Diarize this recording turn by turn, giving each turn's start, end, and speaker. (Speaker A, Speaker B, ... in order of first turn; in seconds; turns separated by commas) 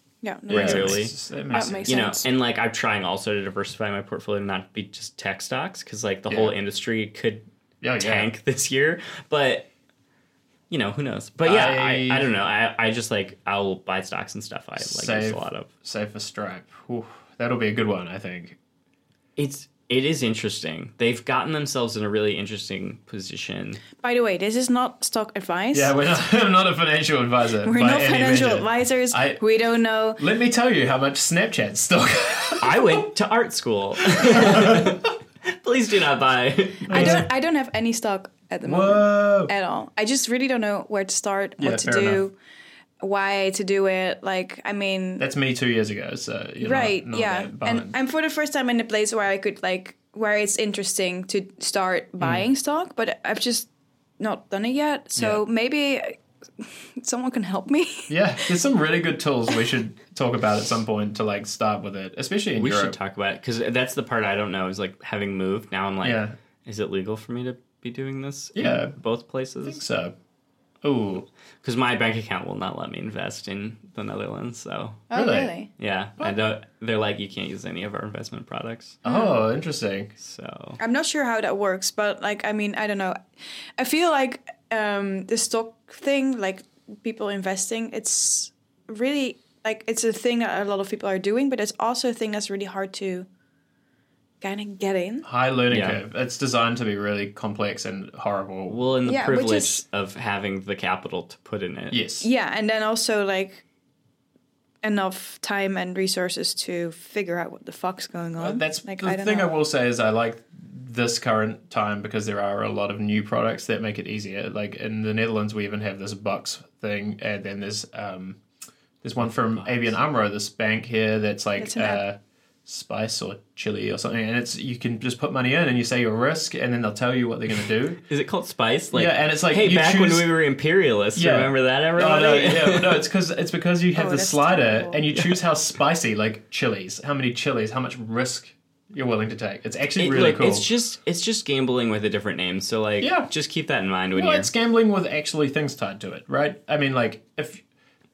Speaker A: 0.2-2.3, Speaker B: 0.5-2.0, Speaker C: 0.5-7.4, Speaker B: 6.3-6.5, Speaker B: 7.8-8.3, Speaker C: 8.0-9.7, Speaker C: 10.7-15.7, Speaker B: 11.4-12.3, Speaker B: 14.8-18.6, Speaker C: 19.4-23.8, Speaker A: 24.0-25.9, Speaker B: 25.7-29.4, Speaker A: 27.6-30.2, Speaker B: 30.2-33.1, Speaker C: 32.6-37.2, Speaker B: 34.1-35.1, Speaker A: 36.9-42.3, Speaker B: 36.9-37.3, Speaker B: 38.6-39.5, Speaker B: 41.6-42.2, Speaker A: 43.0-45.3, Speaker B: 45.2-47.9, Speaker A: 46.6-53.7, Speaker B: 52.2-52.5, Speaker A: 54.2-58.6, Speaker B: 55.1-55.4, Speaker B: 58.1-63.0, Speaker C: 62.6-69.8, Speaker B: 66.0-66.3, Speaker B: 68.5-68.9, Speaker B: 69.6-70.2, Speaker B: 70.8-71.3, Speaker C: 71.6-75.1, Speaker A: 75.1-75.7, Speaker B: 75.1-75.5, Speaker C: 75.8-79.0, Speaker B: 79.0-80.1, Speaker A: 79.0-79.4, Speaker C: 80.2-80.8, Speaker A: 80.8-83.2, Speaker A: 83.8-93.3, Speaker A: 94.4-95.3, Speaker B: 95.2-98.8, Speaker C: 95.7-96.0, Speaker C: 98.7-102.0, Speaker A: 99.0-99.8, Speaker B: 101.9-102.3, Speaker A: 102.2-103.6, Speaker A: 104.8-109.5, Speaker B: 108.4-118.4, Speaker B: 119.0-128.0, Speaker C: 119.2-119.9, Speaker A: 121.6-122.0, Speaker C: 128.1-133.0, Speaker B: 128.9-130.3, Speaker B: 131.2-140.7, Speaker A: 133.9-135.1, Speaker C: 135.1-135.4, Speaker C: 140.0-144.5, Speaker B: 143.0-143.3, Speaker B: 144.1-147.6